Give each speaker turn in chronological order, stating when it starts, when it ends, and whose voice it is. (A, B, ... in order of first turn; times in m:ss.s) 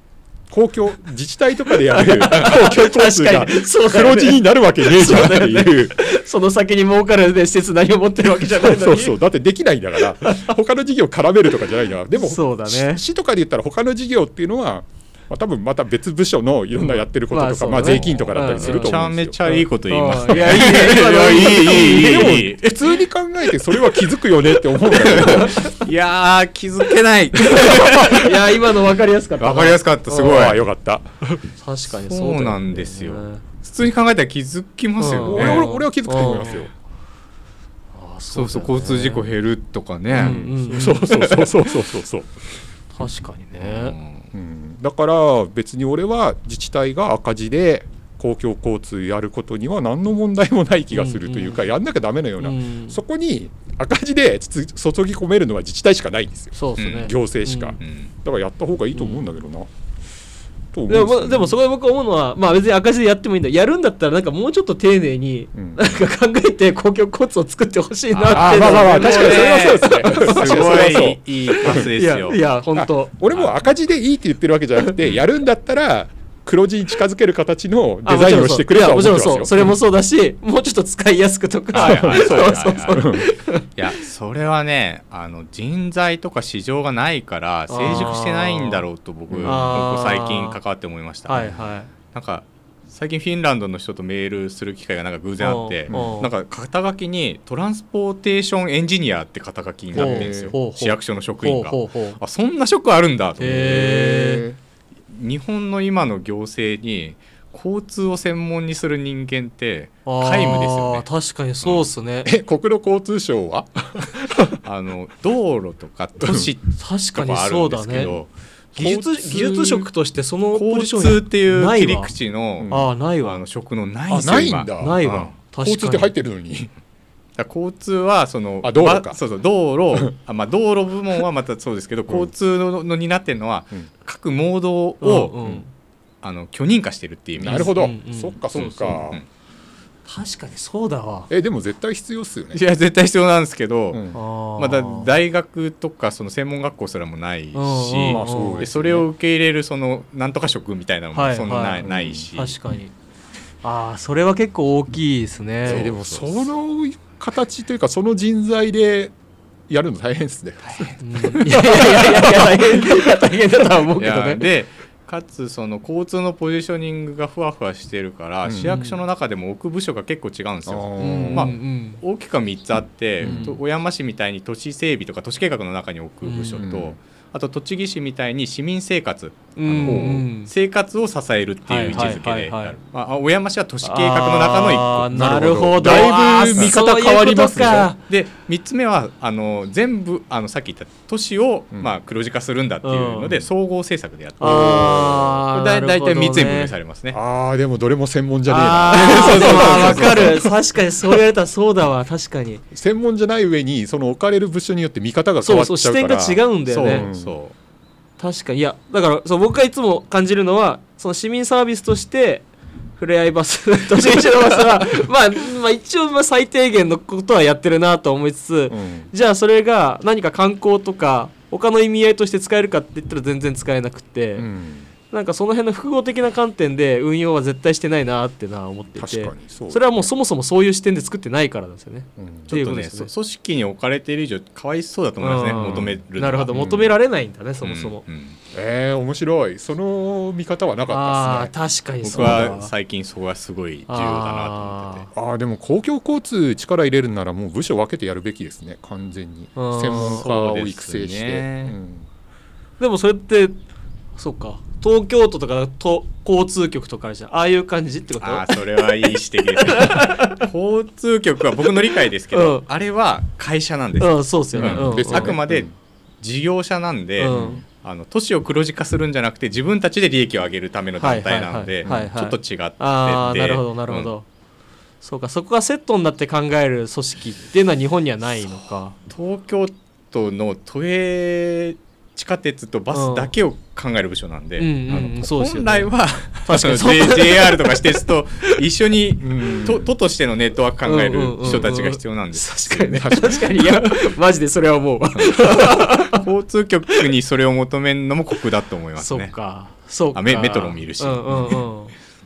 0:00.5-0:06.0 A
0:01.9-0:09.2 B
0:08.4-0:19.4 A
0:10.1-0:10.5 B
0:12.1-0:13.0 B
0:16.9-0:22.4 B
0:17.8-0:22.8 C
0:21.5-0:25.7 A
0:23.7-0:28.3 C
0:27.6-0:30.4 B
0:29.4-0:30.6 C
0:30.2-0:31.4 A
0:31.6-0:33.4 B
0:31.9-0:35.6 C
0:35.0-0:36.7 B
0:35.2-0:36.7 A
0:37.9-0:39.2 B
0:38.3-0:40.5 C
0:40.1-0:41.5 B
0:40.1-0:42.4 A
0:42.9-0:43.9 B
0:43.6-0:44.3 C
0:44.3-0:59.7 A
0:50.9-0:51.6 B
0:52.4-0:53.0 B
0:56.5-0:57.8 B
0:56.8-0:57.1 C
0:57.8-0:58.1 C
0:58.9-0:59.2 B
1:00.7-1:01.5 A
1:00.9-1:13.2 B
1:05.5-1:05.9 A
1:08.1-1:12.4 C
1:08.3-1:11.9 A
1:12.7-1:19.8 A
1:13.3-1:13.6 C
1:18.0-1:23.7 B
1:21.7-1:23.1 C
1:21.8-1:23.3 A
1:23.8-1:31.6 C
1:27.7-1:28.8 B
1:29.3-1:29.7 A
1:29.4-1:30.6 B
1:31.2-1:31.9 B
1:32.1-1:44.2 C
1:35.4-1:36.3 B
1:35.9-1:36.2 A
1:39.9-1:40.5 A
1:40.0-1:42.2 B
1:43.4-1:44.4 B
1:43.6-1:44.6 A
1:45.1-1:51.0 C
1:50.0-1:52.3 B
1:51.6-1:51.9 C
1:52.2-1:54.6 A
1:54.6-1:59.9 C
1:56.2-1:56.5 A
1:56.8-1:58.2 B
1:58.7-2:02.1 B
2:00.5-2:05.3 C
2:02.6-2:02.9 A
2:02.7-2:03.4 B
2:04.1-2:06.7 A
2:04.8-2:06.1 B
2:07.4-2:15.4 C
2:08.6-2:09.2 A
2:15.0-2:15.7 B
2:16.2-2:17.8 C
2:17.4-2:19.2 A
2:17.4-2:19.0 B
2:18.5-2:19.2 C
2:20.0-2:21.3 B
2:21.3-2:22.6 A
2:22.5-2:24.0 C
2:23.9-2:24.2 A
2:24.1-2:25.1 B
2:24.6-2:32.6 C
2:27.5-2:28.7 B
2:28.1-2:29.1 A
2:31.1-2:32.9 B
2:31.8-2:32.3 A
2:33.6-2:35.9 B
2:35.6-2:36.5 C
2:35.6-2:39.1 A
2:39.7-2:42.9 A
2:41.0-2:44.5 B
2:44.0-3:06.8 C
2:48.4-2:48.8 A
2:48.7-2:49.0 B
2:50.6-2:51.5 A
2:51.0-2:52.0 B
2:53.2-2:53.6 A
2:53.2-2:53.6 B
2:56.2-2:56.6 B
2:56.6-2:57.0 A
2:59.6-3:00.5 B
2:59.8-3:00.1 A
3:01.6-3:02.8 B
3:03.8-3:08.0 B
3:05.1-3:07.9 A
3:07.5-3:17.2 C
3:12.8-3:13.4 B
3:14.4-3:16.7 B
3:14.4-3:15.3 A
3:17.1-3:20.5 A
3:18.5-3:20.3 C
3:18.9-3:22.6 B
3:22.7-3:27.4 A
3:25.4-3:27.0 B
3:26.6-3:27.5 C
3:28.2-3:44.5 B
3:38.7-3:39.1 A
3:44.4-3:44.9 A
3:45.1-3:53.1 B
3:49.0-3:49.9 A
3:52.2-3:52.5 A
3:52.5-3:56.5 C
3:55.2-3:58.0 B
3:55.6-3:56.0 A
3:56.5-3:56.9 A
3:57.6-3:58.4 C
3:58.5-4:01.5 A
4:00.9-4:02.7 B
4:02.0-4:05.1 C
4:02.1-4:02.5 A
4:03.9-4:05.0 B
4:05.1-4:12.1 A
4:09.6-4:10.2 B
4:09.9-4:11.8 C
4:12.8-4:13.6 B
4:14.2-4:20.5 B
4:18.2-4:25.7 C
4:22.3-4:22.6 B
4:24.0-4:25.4 B
4:24.5-4:25.7 A
4:26.2-4:34.1 C
4:27.2-4:27.6 B
4:27.2-4:27.6 A
4:31.0-4:34.2 B
4:31.8-4:32.1 A
4:35.0-4:38.9 B
4:38.4-4:53.9 C
4:42.9-4:43.3 B
4:44.6-4:48.0 B
4:49.2-4:49.9 A
4:50.8-4:56.2 B
4:53.0-4:53.6 A
4:55.1-4:59.4 C
4:59.0-5:01.9 B
5:00.1-5:01.6 C